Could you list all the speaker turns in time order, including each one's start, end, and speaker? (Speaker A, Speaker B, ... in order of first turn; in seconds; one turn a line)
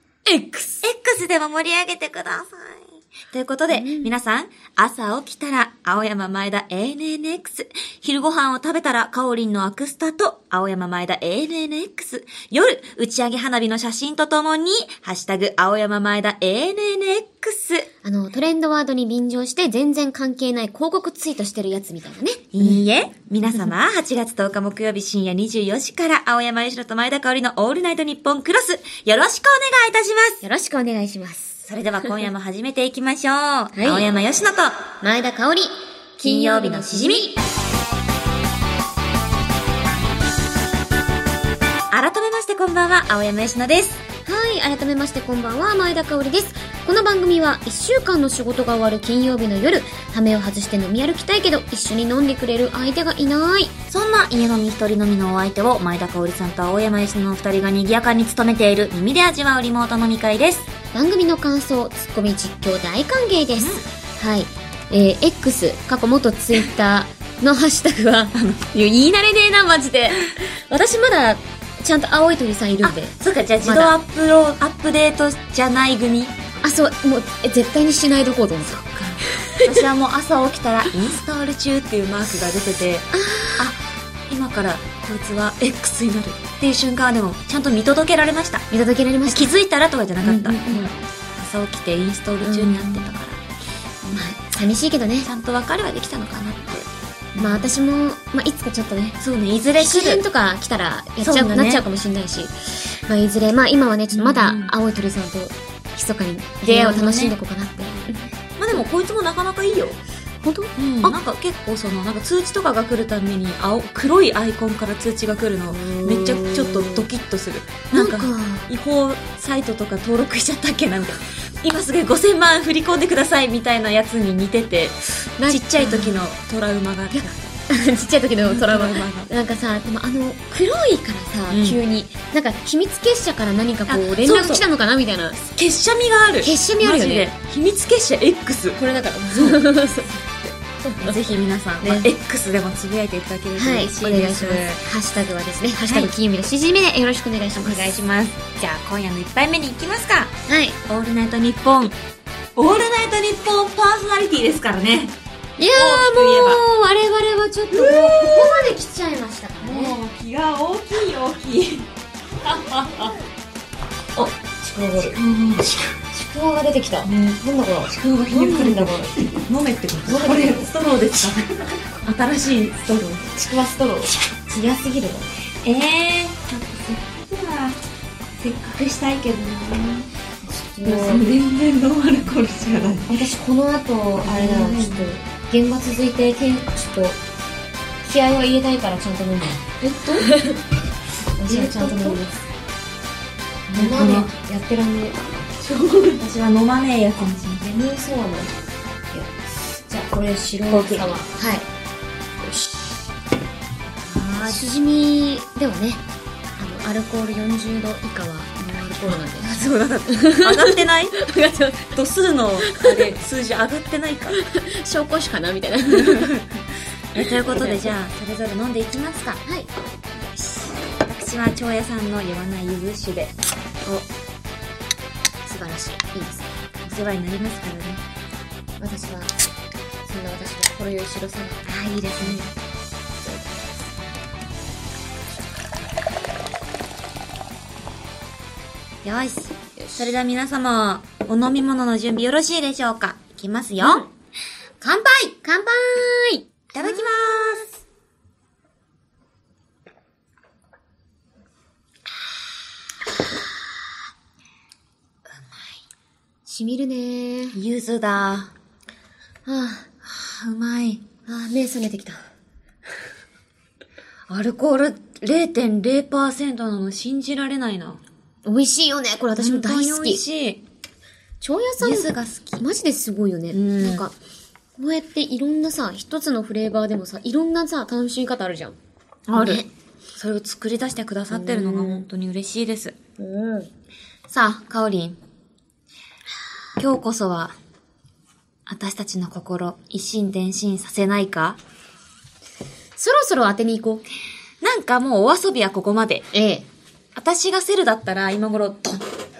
Speaker A: 0.3-0.8
Speaker B: 0.8-17.9
Speaker A: 3.7-4.1
Speaker A: 18.0-22.8
Speaker B: 22.6-30.4
Speaker A: 30.4-31.6
Speaker B: 31.7-34.9
Speaker A: 33.8-34.1
Speaker A: 35.0-37.4
Speaker B: 36.2-37.3
Speaker B: 41.9-44.0
Speaker A: 44.2-53.7
Speaker B: 53.9-60.7
Speaker A: 60.9-74.0
Speaker B: 63.6-63.9
Speaker B: 68.3-68.6
Speaker B: 72.8-76.3
Speaker A: 76.6-79.8
Speaker B: 78.7-83.1
Speaker A: 83.1-83.7
Speaker B: 83.6-88.7
Speaker A: 88.7-89.5
Speaker B: 89.3-93.4
Speaker A: 90.2-90.9
Speaker A: 92.4-93.1
Speaker A: 94.0-95.3
Speaker B: 95.2-97.7
Speaker A: 97.4-99.2
Speaker B: 99.2-100.2
Speaker A: 99.8-108.8
Speaker B: 101.2-101.8
Speaker B: 104.1-104.7
Speaker B: 106.6-107.3
Speaker B: 108.6-110.0
Speaker A: 110.4-111.2
Speaker B: 110.8-127.5
Speaker A: 115.7-117.1
Speaker A: 117.9-118.7
Speaker A: 125.4-126.2
Speaker A: 127.1-135.4
Speaker B: 128.4-129.3
Speaker B: 131.5-131.8
Speaker B: 133.9-134.6
Speaker B: 135.4-139.7
Speaker A: 136.4-137.3
Speaker A: 138.8-140.1
Speaker A: 140.8-142.1
Speaker B: 141.0-144.9
Speaker A: 143.6-147.9
Speaker B: 147.6-152.0
Speaker A: 150.5-150.8
Speaker B: 152.6-155.1
Speaker A: 155.6-160.0
Speaker B: 155.7-156.6
Speaker B: 157.7-158.7
Speaker B: 159.6-161.9
Speaker A: 162.4-163.2
Speaker A: 164.2-165.2
Speaker B: 165.0-165.9
Speaker A: 166.1-169.2
Speaker B: 167.9-173.3
Speaker A: 170.1-170.7
Speaker A: 173.3-175.3
Speaker B: 175.6-177.8
Speaker B: 178.4-180.1
Speaker A: 180.4-181.3
Speaker B: 180.8-183.2
Speaker A: 183.0-187.2
Speaker B: 184.2-185.1
Speaker A: 188.0-190.6
Speaker B: 189.8-190.3
Speaker A: 191.4-192.4
Speaker B: 191.5-192.3
Speaker A: 193.7-196.2
Speaker B: 193.8-194.3
Speaker B: 196.2-197.7
Speaker A: 197.6-198.6
Speaker A: 199.1-201.7
Speaker B: 200.7-201.2
Speaker A: 202.4-203.0
Speaker B: 204.1-204.7
Speaker A: 204.4-206.0
Speaker A: 206.6-211.9
Speaker B: 209.4-211.2
Speaker B: 211.9-214.4
Speaker A: 212.6-213.1
Speaker A: 214.4-216.3
Speaker B: 215.9-216.5
Speaker B: 217.1-219.4
Speaker A: 217.2-217.9
Speaker B: 220.3-223.3
Speaker A: 225.4-226.5
Speaker B: 226.9-228.0
Speaker A: 228.8-229.3
Speaker A: 230.1-231.6
Speaker B: 231.7-232.5
Speaker A: 232.2-232.5
Speaker A: 233.2-234.0
Speaker B: 239.0-244.1
Speaker A: 239.8-240.1
Speaker A: 243.8-244.1
Speaker A: 244.8-247.7
Speaker B: 246.7-247.7
Speaker A: 256.5-257.6
Speaker B: 257.5-258.5
Speaker A: 259.5-259.9
Speaker B: 260.0-261.1
Speaker A: 261.3-262.2
Speaker B: 264.3-268.0
Speaker A: 268.4-270.2
Speaker B: 269.4-270.6
Speaker A: 271.4-274.1
Speaker B: 271.8-272.6
Speaker B: 273.5-274.1
Speaker A: 274.8-278.8
Speaker B: 279.3-283.0
Speaker A: 279.4-279.7
Speaker A: 281.3-282.1
Speaker A: 283.2-283.7
Speaker B: 284.3-285.2
Speaker B: 286.8-287.6
Speaker B: 288.7-291.6
Speaker A: 293.0-294.0
Speaker B: 294.6-296.3
Speaker A: 296.3-296.7
Speaker B: 297.2-299.1